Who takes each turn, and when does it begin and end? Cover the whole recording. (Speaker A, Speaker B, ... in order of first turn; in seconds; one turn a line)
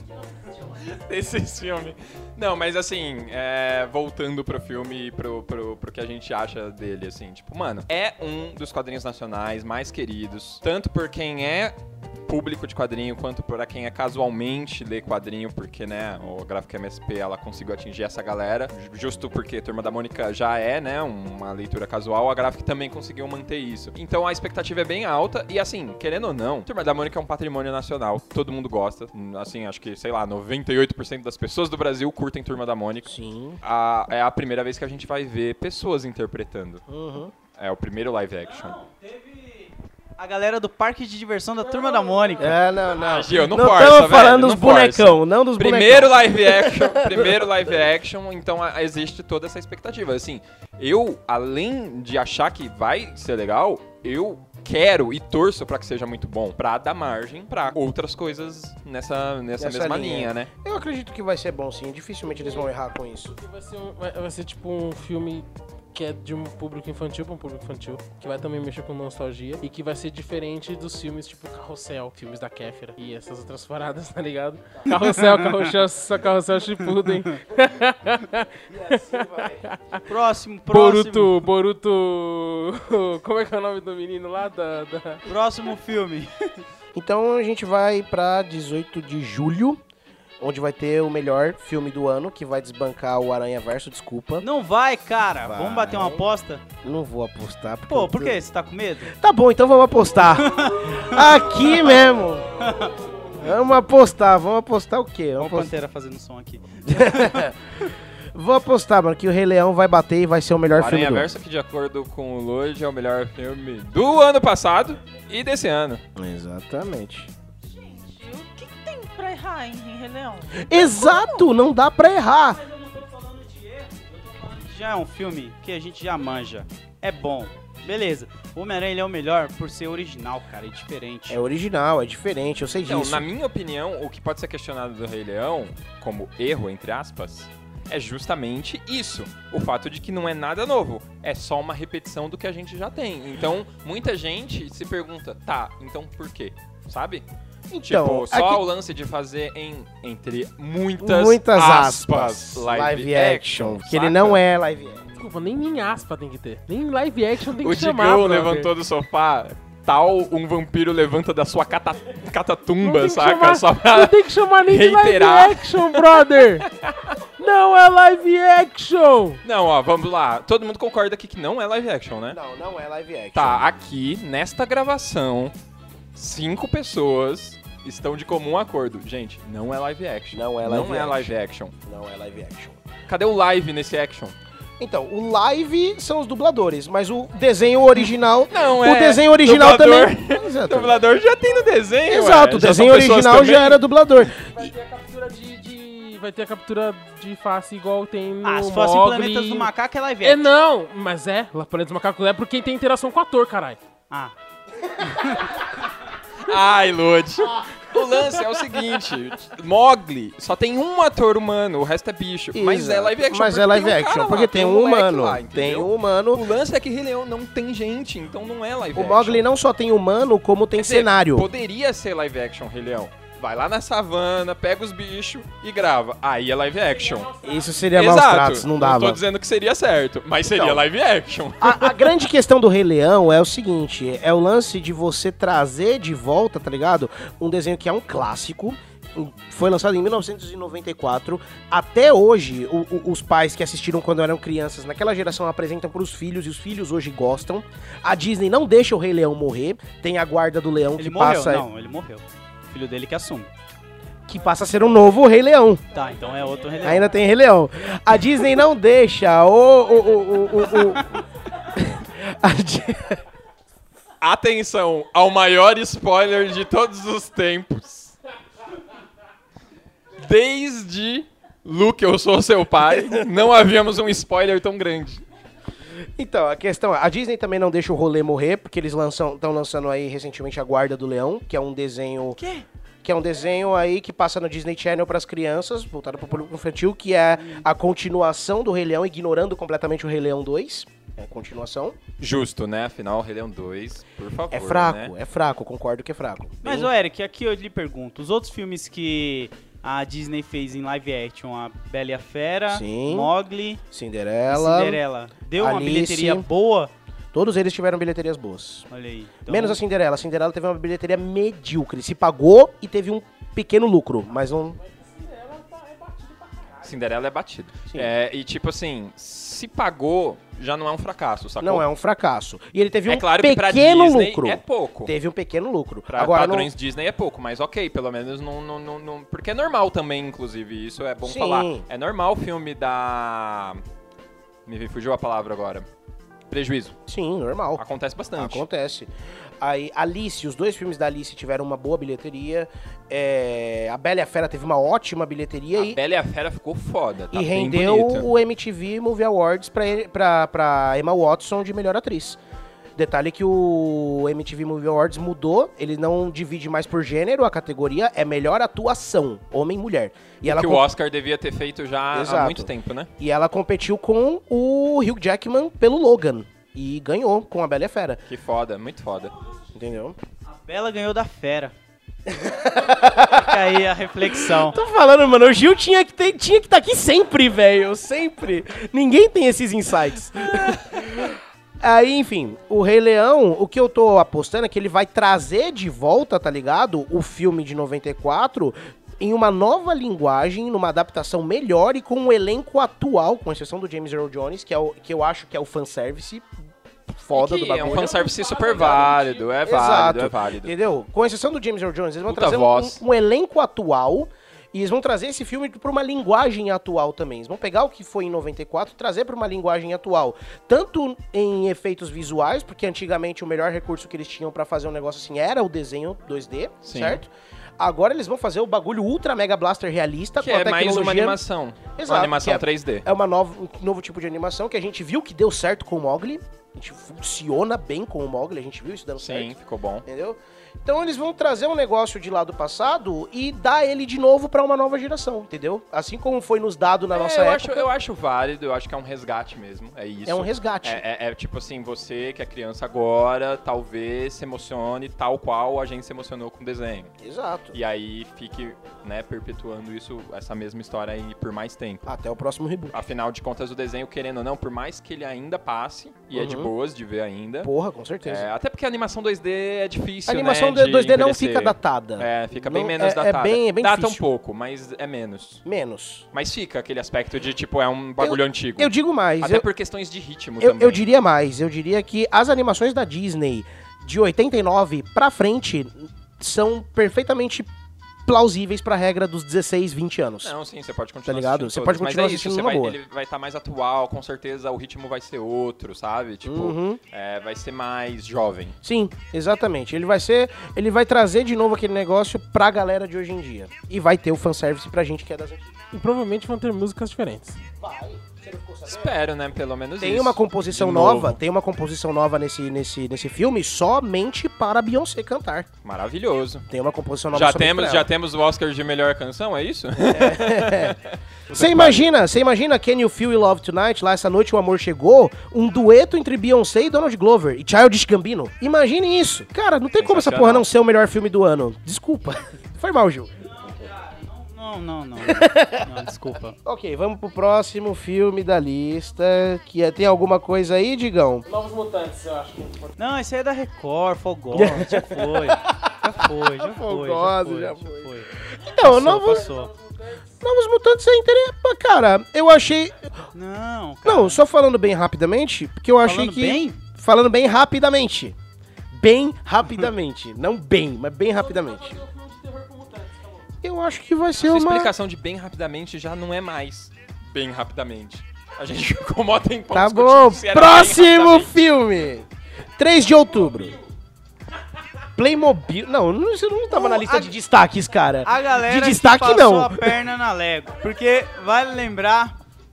Speaker A: 0.8-33.1
Speaker B: 33.0-33.6
Speaker A: 33.6-36.8
Speaker B: 36.9-37.3
Speaker A: 37.6-38.8
Speaker C: 38.5-42.6
Speaker D: 41.7-42.5
Speaker B: 42.4-47.6
Speaker A: 43.0-60.5
Speaker B: 59.6-63.3
Speaker D: 62.3-62.7
Speaker D: 63.2-80.0
Speaker C: 74.9-75.7
Speaker C: 77.0-77.3
Speaker B: 78.7-79.6
Speaker C: 80.1-81.4
Speaker D: 80.7-85.2
Speaker C: 85.2-86.6
Speaker B: 86.9-89.8
Speaker B: 90.4-94.5
Speaker C: 94.4-96.6
Speaker B: 95.4-96.2
Speaker B: 96.8-98.4
Speaker C: 97.9-99.1
Speaker B: 99.1-102.5
Speaker C: 100.3-101.9
Speaker C: 102.6-103.0
Speaker B: 103.4-105.7
Speaker C: 105.4-107.9
Speaker B: 106.9-107.5
Speaker B: 108.3-111.3
Speaker A: 110.7-116.0
Speaker B: 116.2-117.3
Speaker E: 117.6-121.5
Speaker B: 120.6-122.6
Speaker C: 122.5-131.4
Speaker B: 131.3-133.2
Speaker A: 132.8-147.2
Speaker B: 147.7-148.6
Speaker A: 147.8-154.4
Speaker B: 151.0-155.0
Speaker D: 155.2-158.7
Speaker A: 157.5-167.2
Speaker D: 162.8-166.7
Speaker D: 167.4-169.4
Speaker A: 169.4-172.4
Speaker B: 172.3-173.7
Speaker A: 173.3-175.5
Speaker A: 176.1-181.7
Speaker B: 180.3-182.8
Speaker A: 183.1-184.3
Speaker B: 184.8-191.0
Speaker A: 188.5-193.8
Speaker B: 192.1-194.7
Speaker D: 194.4-199.7
Speaker C: 198.4-200.5
Speaker D: 200.2-203.8
Speaker C: 205.0-205.7
Speaker A: 206.4-219.4
Speaker B: 212.5-216.5
Speaker B: 218.9-221.5
Speaker A: 220.8-227.3
Speaker D: 226.8-227.9
Speaker B: 227.4-229.2
Speaker A: 227.9-232.1
Speaker B: 230.5-230.8
Speaker B: 231.6-251.7
Speaker C: 251.0-253.5
Speaker B: 254.3-255.8
Speaker C: 255.9-257.1
Speaker B: 256.8-263.2
Speaker C: 260.8-261.2
Speaker A: 264.2-268.1
Speaker A: 270.2-275.2
Speaker B: 276.2-282.4
Speaker C: 282.4-282.6
Speaker B: 283.0-292.0
Speaker A: 292.2-295.1
Speaker B: 294.5-296.9
Speaker C: 296.6-303.8
Speaker B: 302.7-303.3
Speaker B: 303.9-305.0
Speaker C: 304.5-306.9
Speaker B: 305.6-306.4
Speaker B: 307.3-308.9
Speaker C: 308.9-309.8
Speaker B: 309.5-314.8
Speaker D: 314.6-316.9
Speaker A: 316.8-321.8
Speaker B: 321.6-326.7
Speaker A: 323.1-325.1
Speaker A: 326.1-333.8
Speaker B: 331.2-331.9
Speaker A: 334.6-335.9
Speaker A: 336.5-336.9
Speaker B: 337.1-337.8
Speaker A: 337.8-338.6
Speaker B: 338.4-346.0
Speaker A: 345.8-348.2
Speaker B: 347.3-352.4
Speaker B: 352.9-360.8
Speaker A: 360.4-363.1
Speaker B: 362.1-368.2
Speaker A: 368.3-369.3
Speaker B: 369.7-370.2
Speaker C: 370.5-371.7
Speaker B: 372.2-373.7
Speaker C: 373.1-374.8
Speaker B: 374.2-396.5
Speaker B: 397.1-421.4
Speaker A: 397.3-400.7
Speaker D: 397.9-399.5
Speaker A: 402.3-403.0
Speaker A: 416.8-417.2
Speaker A: 420.4-423.0
Speaker B: 421.9-429.5
Speaker A: 429.2-430.0
Speaker B: 430.1-437.9
Speaker A: 437.1-447.1
Speaker B: 440.2-441.0
Speaker B: 447.2-447.8
Speaker A: 447.7-452.1
Speaker B: 452.0-453.0
Speaker A: 452.9-457.7
Speaker B: 456.3-456.7
Speaker B: 457.6-458.5
Speaker A: 458.2-465.6
Speaker B: 460.2-464.2
Speaker B: 465.6-466.2
Speaker A: 466.3-471.0
Speaker B: 468.2-469.6
Speaker B: 470.6-477.7
Speaker B: 478.3-480.5
Speaker A: 480.4-488.8
Speaker B: 481.2-483.0
Speaker B: 486.4-487.0
Speaker B: 488.8-495.7
Speaker D: 495.9-497.6
Speaker B: 497.8-499.1
Speaker A: 498.8-501.4
Speaker B: 500.0-505.7
Speaker A: 505.8-506.6
Speaker B: 506.7-508.1
Speaker A: 507.3-512.1
Speaker B: 510.1-511.0
Speaker B: 511.5-523.3
Speaker A: 520.0-520.6
Speaker C: 523.4-526.5
Speaker B: 525.2-525.9
Speaker B: 526.6-531.4
Speaker D: 531.5-532.9
Speaker C: 533.0-539.7
Speaker B: 534.5-539.5
Speaker D: 539.0-540.2
Speaker B: 540.4-543.1
Speaker C: 543.3-544.4
Speaker B: 544.0-548.4
Speaker C: 546.0-546.8
Speaker B: 548.9-552.0
Speaker D: 551.3-553.5
Speaker B: 553.6-554.9
Speaker A: 554.4-561.5
Speaker B: 559.7-563.8
Speaker B: 565.1-570.0
Speaker C: 566.7-567.3
Speaker C: 568.2-572.3